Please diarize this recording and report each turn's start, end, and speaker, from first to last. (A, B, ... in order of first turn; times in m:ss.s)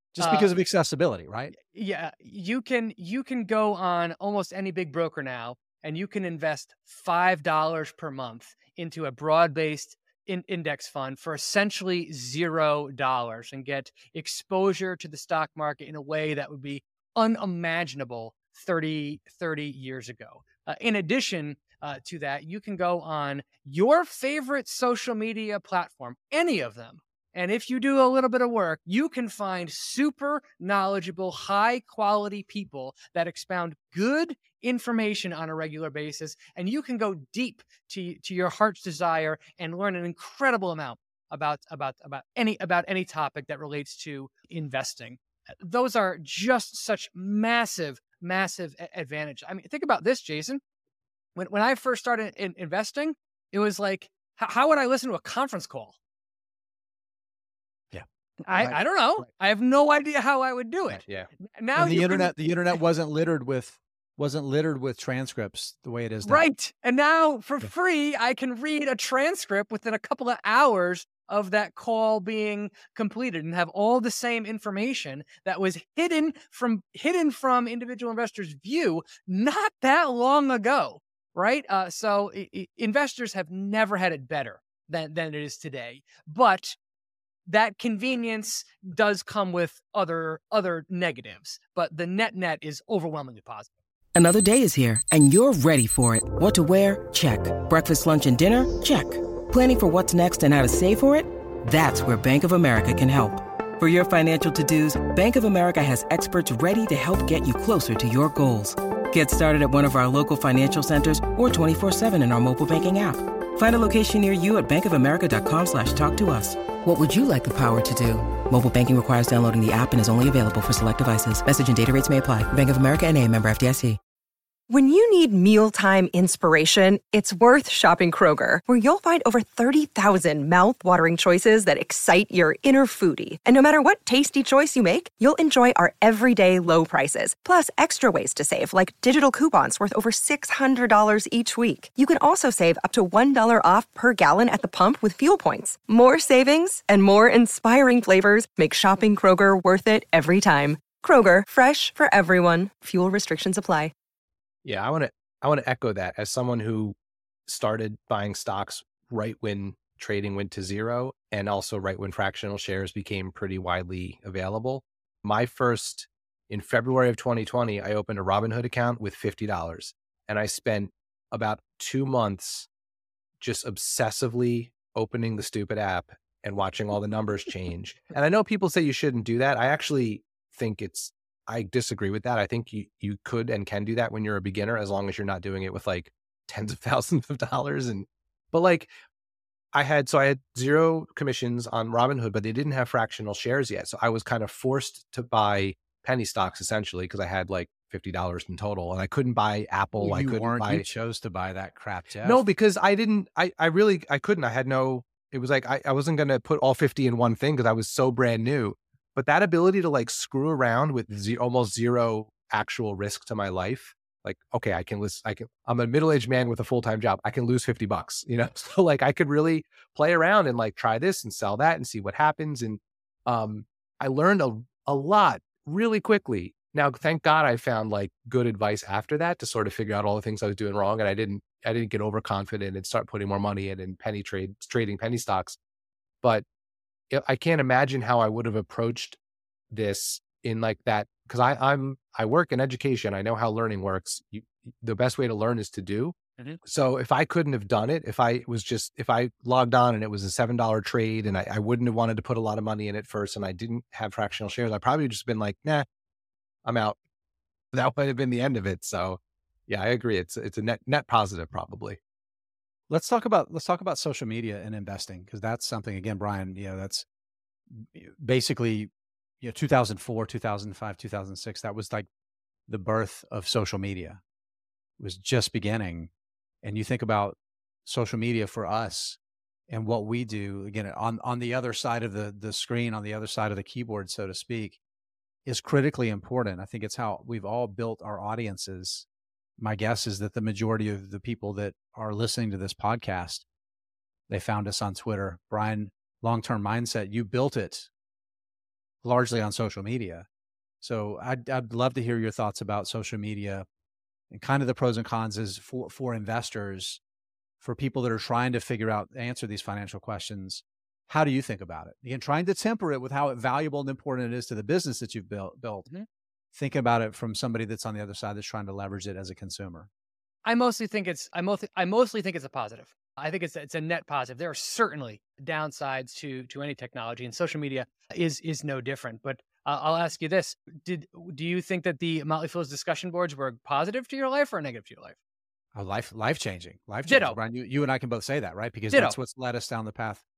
0:00.1-0:01.5 A
0:00.2-0:00.5 B
0:01.5-0:50.6 B
0:51.4-0:56.0 B
0:58.4-1:02.3 B
1:01.7-1:06.4 A
1:06.2-1:26.8 B
1:27.5-1:33.7 B
1:34.1-2:04.0 C
2:04.7-2:33.9 D
2:34.6-2:37.0 E
2:37.5-2:52.7 E
2:53.4-3:08.9 E
3:09.7-3:20.8 E
3:20.0-3:22.5 A
3:22.2-3:55.6 E
3:57.1-3:59.2 E
3:59.7-4:15.8 E
4:16.6-4:17.0 E
4:17.7-4:22.0 E
4:22.9-4:27.0 A
4:27.7-4:32.1 A
4:32.7-4:34.2 A
4:35.0-4:36.1 A
4:36.6-4:39.2 A
4:39.7-4:44.8 A
4:45.4-4:49.1 A
4:49.6-4:53.4 A
4:54.3-4:57.9 A
4:59.0-5:00.3 A
5:00.8-5:03.6 A
5:04.3-5:07.0 A
5:07.6-5:15.9 A
5:16.5-5:19.9 A
5:20.4-5:35.2 B
5:35.7-5:40.2 A
5:37.0-5:37.4 B
5:38.9-5:39.2 B